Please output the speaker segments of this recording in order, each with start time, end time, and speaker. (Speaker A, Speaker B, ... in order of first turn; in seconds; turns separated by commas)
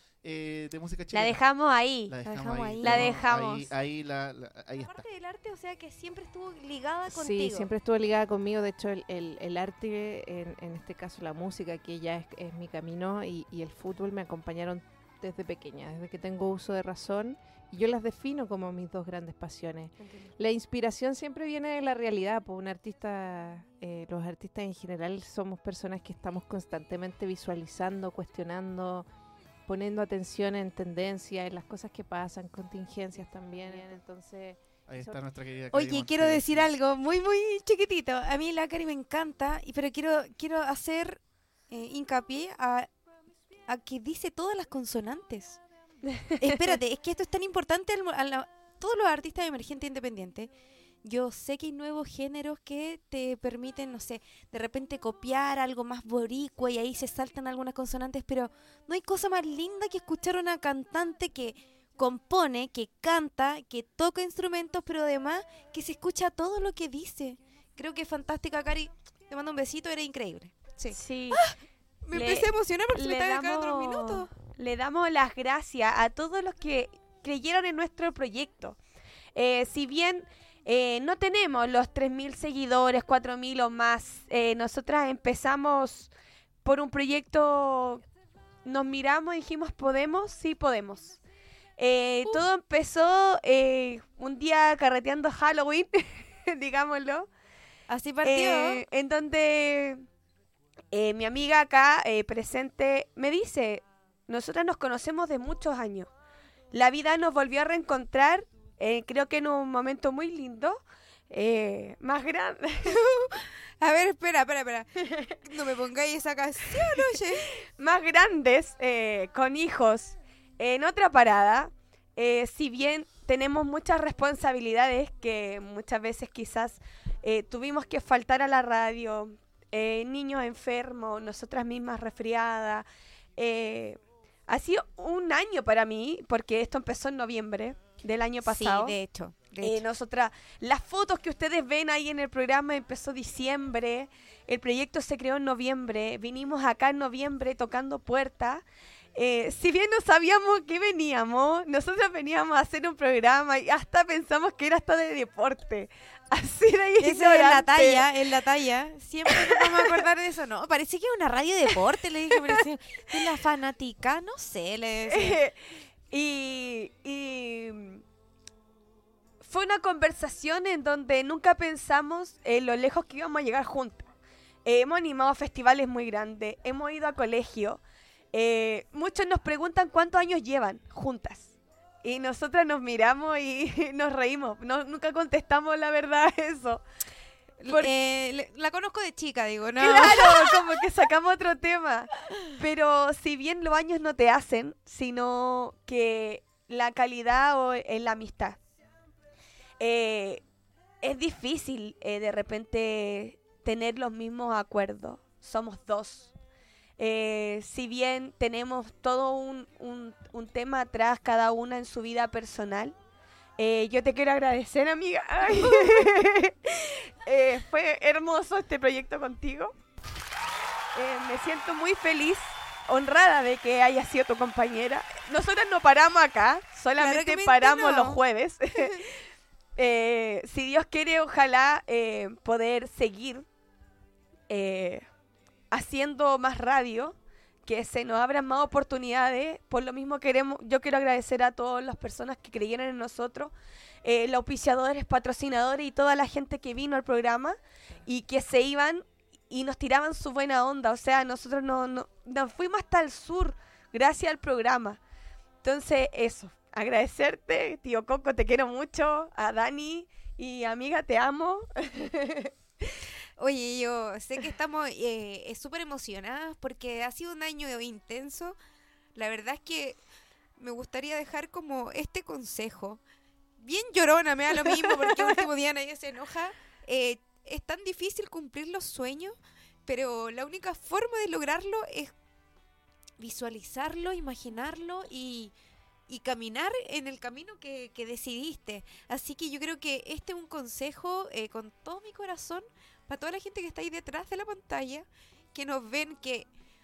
Speaker A: 0.2-1.4, Speaker B: 1.1-2.1, Speaker A: 2.1-5.0, Speaker C: 2.2-3.2, Speaker B: 2.8-3.7, Speaker C: 4.8-7.7, Speaker D: 7.1-29.1, Speaker C: 20.0-20.2, Speaker D: 29.7-35.2, Speaker C: 33.5-33.9, Speaker A: 34.9-36.7, Speaker C: 35.7-42.9, Speaker C: 43.7-45.6, Speaker C: 46.4-50.5, Speaker C: 51.0-74.3, Speaker B: 70.9-71.4, Speaker B: 72.1-78.8, Speaker B: 79.3-86.1, Speaker B: 86.6-88.0, Speaker B: 88.6-91.2, Speaker B: 91.8-97.3, Speaker C: 97.9-98.8, Speaker B: 98.2-100.0, Speaker B: 100.9-106.1, Speaker B: 106.7-112.9, Speaker C: 112.9-117.5, Speaker B: 117.8-132.8, Speaker B: 133.4-138.9, Speaker C: 138.4-139.8, Speaker B: 139.6-158.1, Speaker C: 157.0-165.4, Speaker B: 159.3-159.6, Speaker B: 165.1-165.6, Speaker B: 166.1-168.0, Speaker B: 169.4-174.1, Speaker B: 174.6-177.8, Speaker B: 178.3-186.8, Speaker C: 187.6-190.6, Speaker B: 189.8-198.6, Speaker B: 199.8-200.4, Speaker B: 201.0-206.3, Speaker B: 207.0-212.9, Speaker B: 213.6-219.7, Speaker C: 215.5-216.0, Speaker B: 220.9-229.1, Speaker C: 227.0-228.2, Speaker B: 229.8-233.4, Speaker B: 234.5-235.0, Speaker B: 235.7-243.5, Speaker B: 244.0-255.0, Speaker B: 255.6-262.5, Speaker C: 263.4-268.6, Speaker C: 269.1-270.0, Speaker C: 270.6-273.0, Speaker C: 273.6-279.3, Speaker C: 279.9-282.1, Speaker C: 283.2-285.5, Speaker C: 286.1-296.5